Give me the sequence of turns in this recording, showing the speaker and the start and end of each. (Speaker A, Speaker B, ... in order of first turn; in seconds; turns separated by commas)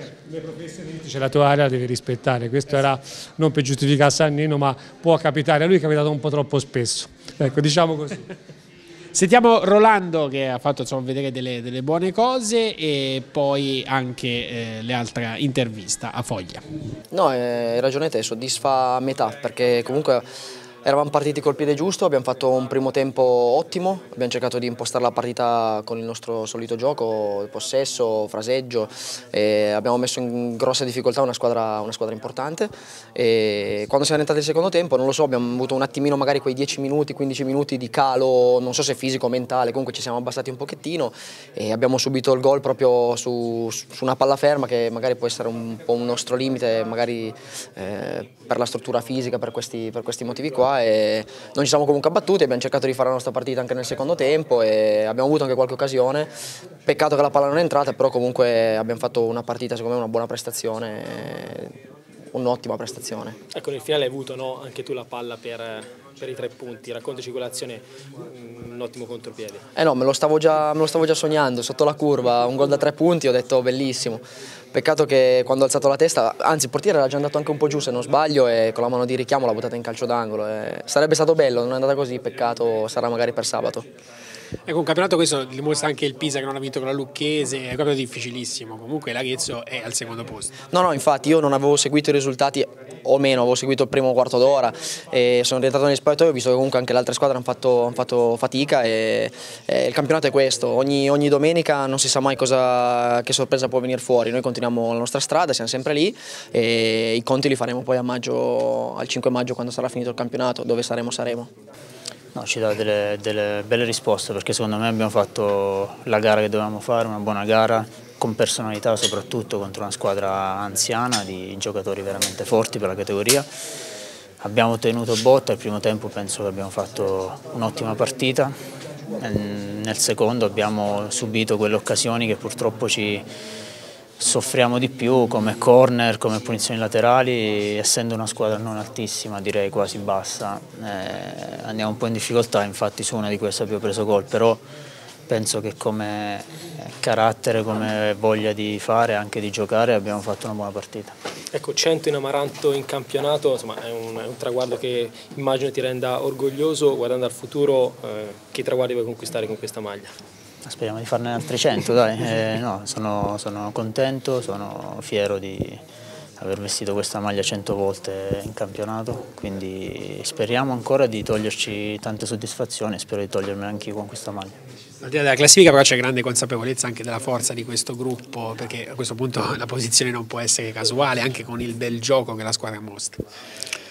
Speaker A: 0.3-8.2, Speaker B: 9.1-16.6, Speaker C: 17.1-20.2, Speaker C: 20.8-56.3, Speaker C: 56.9-61.7, Speaker C: 62.3-63.4, Speaker D: 63.5-69.6, Speaker C: 69.8-83.9, Speaker B: 84.7-90.5, Speaker C: 90.7-111.5, Speaker E: 112.3-123.5, Speaker E: 124.4-128.6, Speaker E: 129.2-133.2, Speaker E: 134.2-144.6, Speaker E: 145.3-146.5, Speaker E: 147.0-151.2, Speaker D: 151.5-160.1, Speaker E: 160.6-165.8, Speaker E: 166.4-174.6, Speaker B: 175.0-183.2